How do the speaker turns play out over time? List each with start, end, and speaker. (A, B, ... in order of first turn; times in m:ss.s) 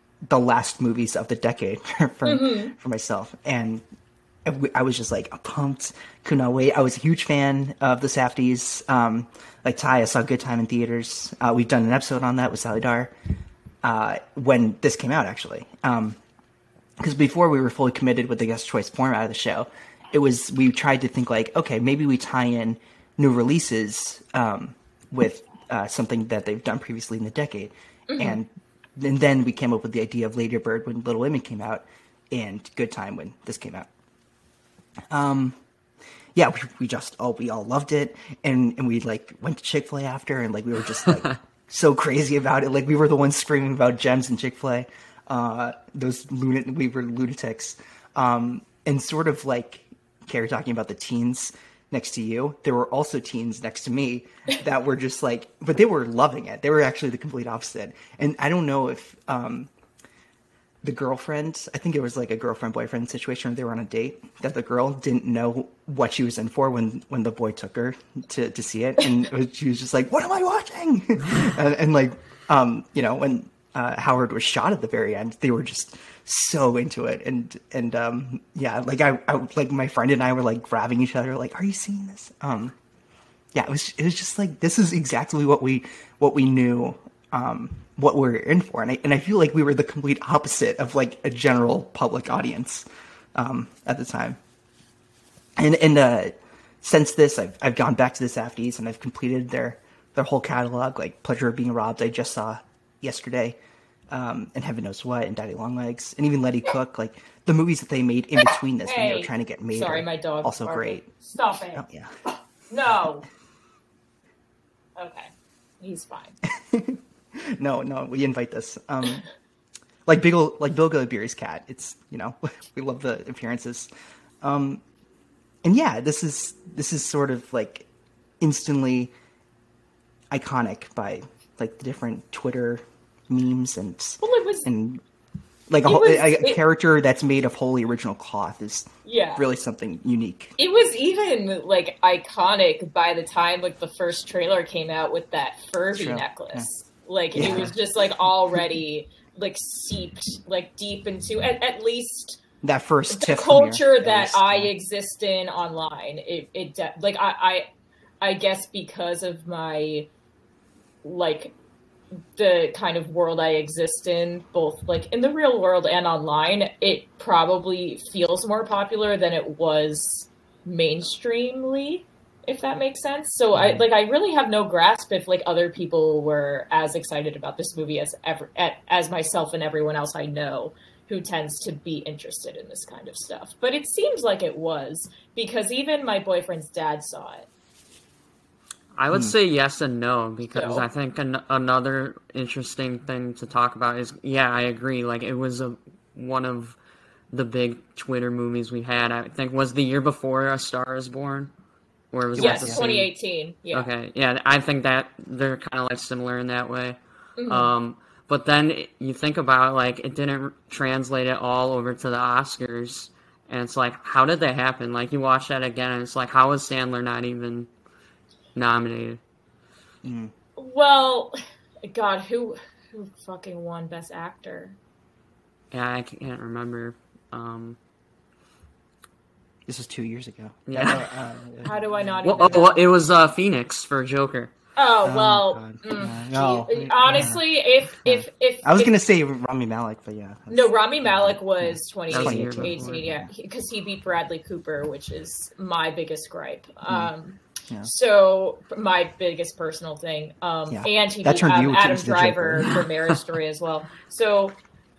0:00.2-0:03.8 A
0:02.2-0:02.7 B
0:04.4-0:13.1 A
0:13.8-0:16.2 A
0:17.0-0:33.9 A
0:28.1-0:28.4 B
0:35.1-0:35.6 A
0:36.3-0:59.7 A
1:00.8-1:22.7 A
1:23.5-1:34.4 A
1:35.6-1:43.6 A
1:44.1-1:51.2 A
1:48.8-1:51.8 B
1:51.7-1:52.1 A
1:52.7-1:53.2 B
1:55.0-1:55.3 B
1:55.8-1:56.4 B
1:56.5-1:59.2 A
2:00.1-2:03.9 A
2:04.4-2:04.8 A
2:05.6-2:07.9 A
2:08.4-2:09.1 A
2:10.3-2:15.0 A
2:14.2-2:14.7 B
2:15.7-2:20.5 A
2:15.8-2:16.6 B
2:19.0-2:19.4 B
2:20.6-2:32.4 B
2:25.9-2:26.7 A
2:27.3-2:27.8 A
2:32.6-2:34.7 A
2:33.1-2:37.7 B
2:38.2-2:40.1 B
2:41.0-2:41.5 B
2:42.4-3:07.5 B
3:09.0-3:16.8 C
3:10.5-3:10.8 B
3:17.3-3:21.5 C
3:22.1-3:23.1 C
3:22.4-3:22.8 A
3:22.4-3:23.9 B
3:23.7-3:37.7 C
3:27.4-3:27.7 B
3:38.5-3:39.2 C
3:40.0-3:40.3 A
3:40.6-3:44.8 B
3:45.7-3:47.8 C
3:49.7-3:52.6 A
3:50.7-3:51.0 C
3:51.6-3:52.8 B
3:52.2-3:54.5 C
3:54.8-3:59.0 B
3:55.0-3:57.4 A
3:58.0-4:03.3 A
4:00.5-4:14.6 B
4:02.1-4:03.0 C
4:10.7-4:12.8 A